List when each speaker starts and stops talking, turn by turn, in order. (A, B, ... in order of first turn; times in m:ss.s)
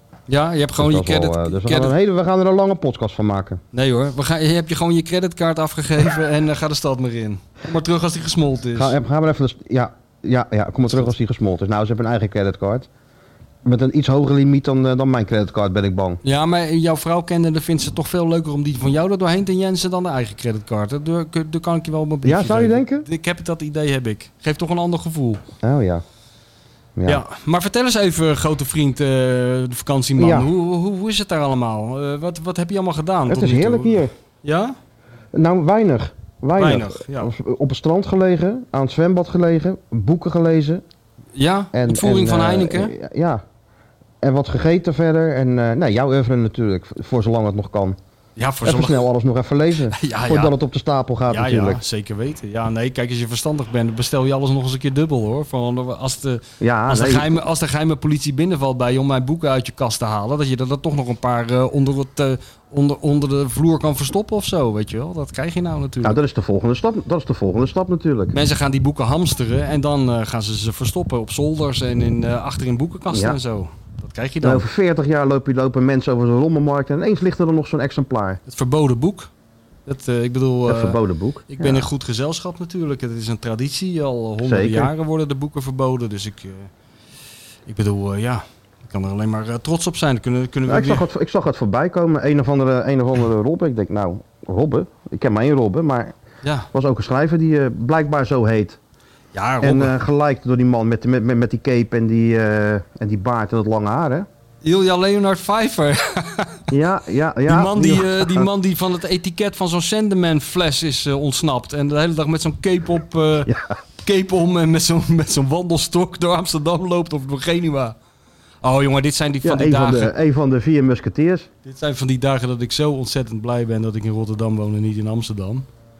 0:00.3-0:01.9 A
0:00.8-0:03.6 B
0:03.7-0:09.0 A
0:08.8-0:12.9 B
0:13.6-0:16.2 B
0:16.2-0:25.4 A
0:22.2-0:23.1 B
0:25.6-0:26.0 B
0:27.0-0:27.2 B
0:27.1-0:34.8 A
0:30.2-0:30.5 B
0:33.3-0:34.1 B
0:35.3-0:40.8 B
0:36.6-0:37.3 A
0:41.4-0:42.9 A
0:41.7-0:43.4 B
0:44.2-0:48.0 B
0:48.4-0:49.1 A
0:48.6-0:51.8 B
0:49.9-0:50.5 A
0:51.3-1:06.2 A
0:56.6-0:57.4 B
1:06.0-1:08.3 B
1:08.3-1:14.7 A
1:13.1-1:13.4 B
1:14.4-1:18.4 B
1:18.5-1:19.3 A
1:19.9-1:26.7 A
1:20.7-1:21.9 B
1:24.4-1:24.9 B
1:27.7-1:31.1 A
1:30.7-1:36.1 B
1:36.4-1:36.7 A
1:36.7-1:38.8 B
1:39.3-1:40.0 A
1:39.6-1:44.3 B
1:44.6-1:46.7 A
1:46.7-1:48.5 B
1:47.5-1:58.0 A
1:53.5-1:53.7 B
1:58.6-2:00.1 A
1:59.4-2:01.5 B
2:01.6-2:05.7 A